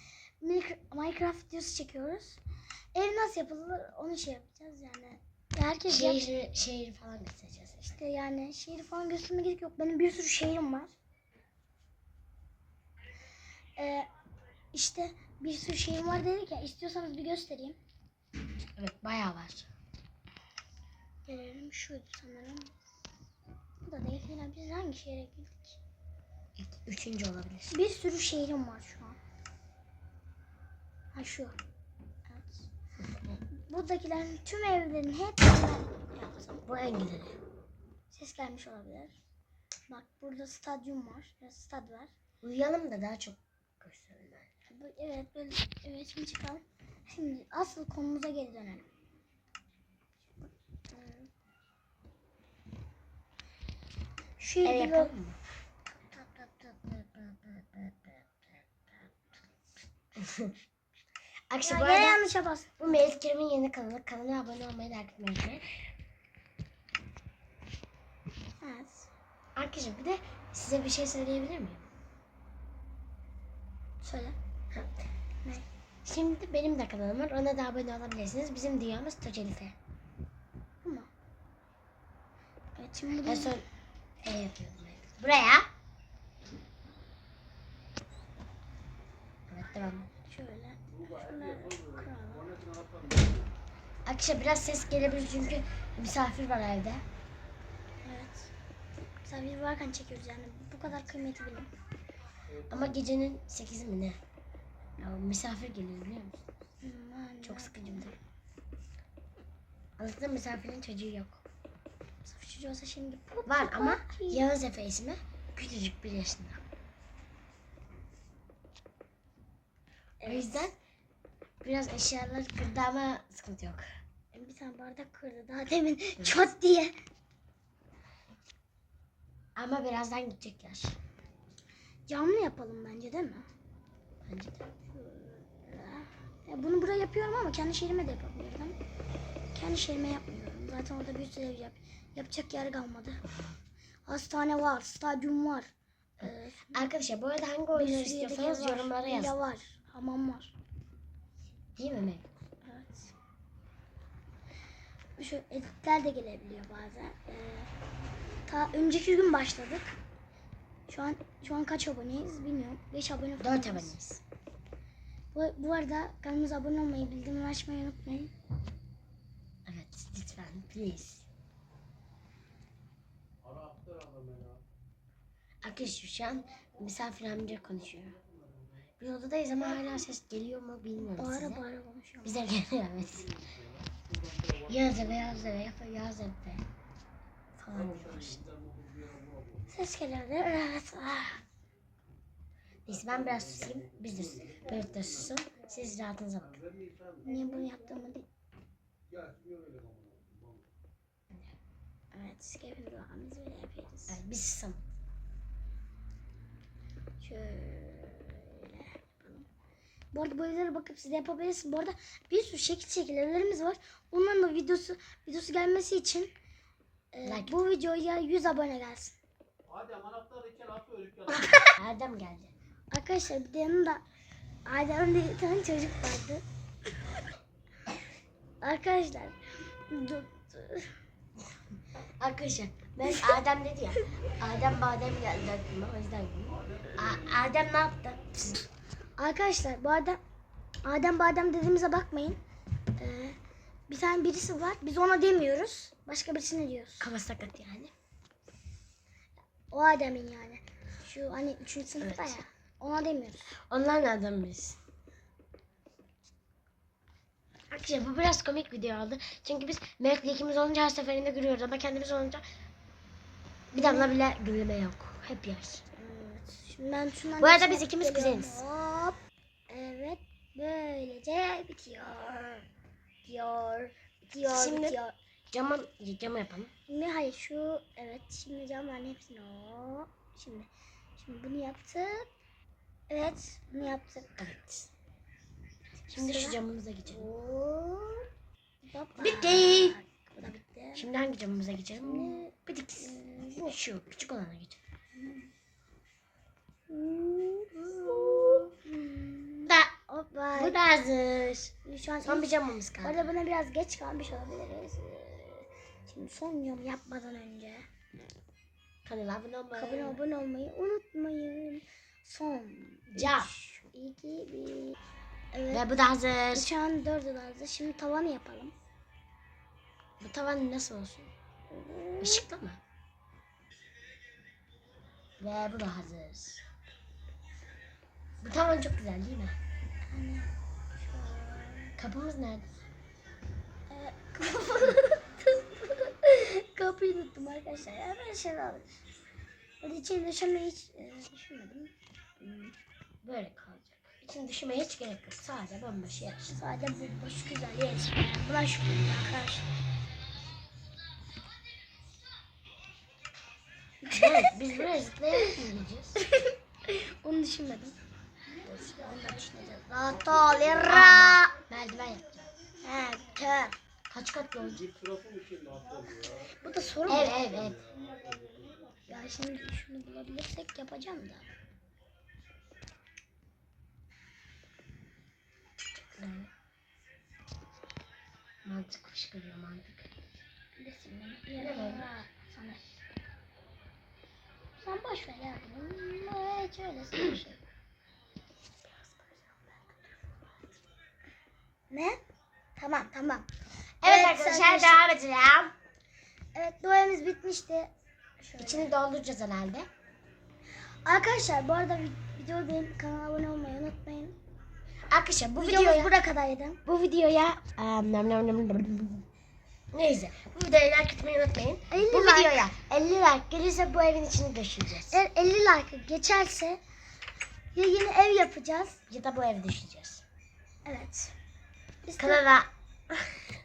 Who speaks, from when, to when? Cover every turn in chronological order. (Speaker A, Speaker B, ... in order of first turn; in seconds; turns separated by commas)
Speaker A: 0.4-2.4, Speaker A: 2.9-6.2, Speaker B: 5.9-8.0, Speaker A: 7.9-10.9, Speaker A: 13.8-14.1, Speaker A: 14.7-17.8, Speaker B: 18.8-19.7, Speaker A: 21.2-22.7, Speaker A: 23.8-25.8, Speaker B: 26.6-27.8, Speaker A: 27.7-29.2, Speaker A: 31.1-31.6, Speaker A: 32.3-32.7, Speaker B: 33.0-33.4, Speaker A: 33.6-36.6, Speaker B: 36.6-37.4, Speaker A: 38.1-39.1, Speaker A: 39.9-42.1, Speaker B: 42.4-44.5, Speaker A: 44.7-48.9, Speaker A: 50.9-51.3, Speaker A: 54.4-55.1, Speaker B: 54.6-55.4, Speaker A: 56.1-57.8, Speaker B: 60.1-60.5, Speaker B: 61.5-62.2, Speaker A: 61.6-62.7, Speaker B: 62.8-65.8, Speaker A: 68.6-69.1, Speaker B: 69.5-71.8, Speaker A: 74.0-74.3, Speaker B: 76.0-79.8, Speaker A: 80.8-81.1, Speaker A: 82.8-83.6, Speaker B: 83.2-83.6, Speaker B: 84.2-85.7, Speaker B: 89.5-90.1, Speaker A: 90.2-92.5, Speaker C: 90.9-93.4, Speaker B: 94.0-97.0, Speaker A: 98.0-98.5, Speaker A: 99.2-101.7, Speaker B: 102.7-104.2, Speaker B: 105.0-106.4, Speaker A: 106.8-108.1, Speaker B: 107.4-108.1, Speaker B: 110.0-111.4, Speaker A: 112.2-114.4, Speaker B: 113.5-116.6, Speaker A: 120.2-120.7, Speaker B: 120.2-120.8, Speaker B: 121.6-123.8, Speaker A: 124.3-127.0, Speaker B: 129.6-130.9, Speaker A: 132.1-133.4, Speaker B: 134.2-134.6, Speaker A: 134.9-138.8, Speaker A: 139.5-143.2, Speaker A: 144.1-146.9, Speaker B: 146.2-149.4, Speaker A: 147.7-150.5, Speaker B: 151.8-152.2, Speaker A: 152.6-153.1, Speaker A: 155.2-157.7, Speaker A: 158.5-159.9, Speaker A: 160.9-163.9, Speaker B: 163.4-164.2, Speaker A: 165.3-168.3, Speaker B: 169.7-171.2, Speaker C: 173.4-174.6, Speaker B: 175.6-178.2, Speaker B: 179.0-181.6, Speaker A: 181.0-182.4, Speaker B: 182.2-183.3, Speaker C: 183.3-185.2, Speaker B: 184.7-186.6, Speaker B: 187.6-188.4, Speaker C: 187.8-189.6, Speaker A: 189.7-191.4, Speaker B: 192.8-196.6, Speaker C: 193.2-195.0, Speaker C: 196.6-197.1, Speaker A: 197.2-198.2, Speaker C: 199.1-200.6, Speaker A: 202.1-204.2, Speaker B: 204.1-204.8, Speaker A: 207.2-209.5, Speaker A: 210.1-216.3, Speaker A: 217.1-219.2, Speaker B: 217.2-217.6, Speaker C: 219.7-221.5, Speaker B: 221.8-222.5, Speaker A: 222.9-224.0, Speaker A: 224.7-226.4, Speaker A: 228.6-229.4, Speaker A: 229.9-230.9, Speaker B: 232.2-238.6, Speaker A: 239.2-240.2, Speaker A: 240.8-242.4, Speaker A: 243.0-243.4, Speaker A: 243.9-247.1, Speaker B: 247.0-247.9, Speaker A: 249.7-253.5, Speaker B: 252.0-252.3, Speaker B: 253.7-254.8, Speaker B: 257.7-262.4, Speaker B: 263.7-265.8, Speaker A: 263.7-264.1, Speaker A: 265.9-272.6, Speaker B: 267.4-268.6, Speaker A: 273.2-275.1, Speaker B: 274.4-275.0, Speaker B: 275.5-276.7, Speaker A: 276.9-282.3, Speaker A: 283.1-284.4, Speaker B: 284.4-284.9, Speaker A: 286.1-288.2, Speaker B: 286.1-287.2, Speaker A: 288.8-291.1, Speaker B: 289.2-290.0, Speaker B: 290.9-294.8, Speaker A: 292.0-293.7, Speaker A: 295.1-295.5, Speaker A: 296.9-300.8, Speaker B: 297.9-298.7, Speaker B: 299.7-299.9, Speaker B: 300.5-301.7, Speaker A: 301.8-302.5, Speaker B: 302.2-303.3, Speaker A: 303.0-307.9, Speaker B: 309.0-310.2, Speaker A: 309.8-315.0, Speaker B: 313.1-313.5, Speaker A: 315.5-315.8, Speaker B: 315.7-316.7, Speaker A: 316.5-318.7, Speaker B: 320.2-321.3, Speaker A: 321.7-322.4, Speaker B: 322.2-322.8, Speaker B: 325.4-326.6, Speaker B: 328.4-329.6, Speaker A: 330.1-331.9, Speaker B: 332.0-332.6, Speaker A: 333.9-338.8, Speaker A: 339.8-342.7, Speaker B: 343.2-346.5, Speaker A: 346.4-349.7, Speaker A: 354.0-354.5, Speaker B: 354.1-356.2, Speaker A: 356.2-357.9, Speaker A: 358.6-361.5, Speaker B: 360.8-362.5, Speaker A: 362.8-363.7, Speaker B: 364.1-364.8, Speaker C: 364.8-366.5, Speaker A: 366.5-367.4, Speaker B: 367.1-367.9, Speaker C: 367.3-368.6, Speaker A: 369.1-371.5, Speaker B: 375.9-376.5, Speaker B: 378.6-380.1, Speaker A: 380.8-383.0, Speaker B: 381.6-382.1, Speaker A: 384.8-387.6, Speaker A: 391.9-392.2, Speaker A: 392.8-393.5, Speaker B: 394.0-395.7, Speaker A: 394.0-395.0, Speaker A: 396.5-398.9, Speaker B: 398.6-399.9, Speaker A: 401.0-404.4, Speaker B: 405.1-406.1, Speaker A: 405.6-406.8, Speaker B: 406.9-409.2, Speaker B: 409.9-415.2, Speaker A: 411.9-412.7, Speaker A: 415.1-416.8, Speaker A: 417.7-419.0, Speaker B: 419.1-420.2, Speaker A: 420.8-421.3, Speaker A: 422.0-422.4, Speaker B: 422.2-423.4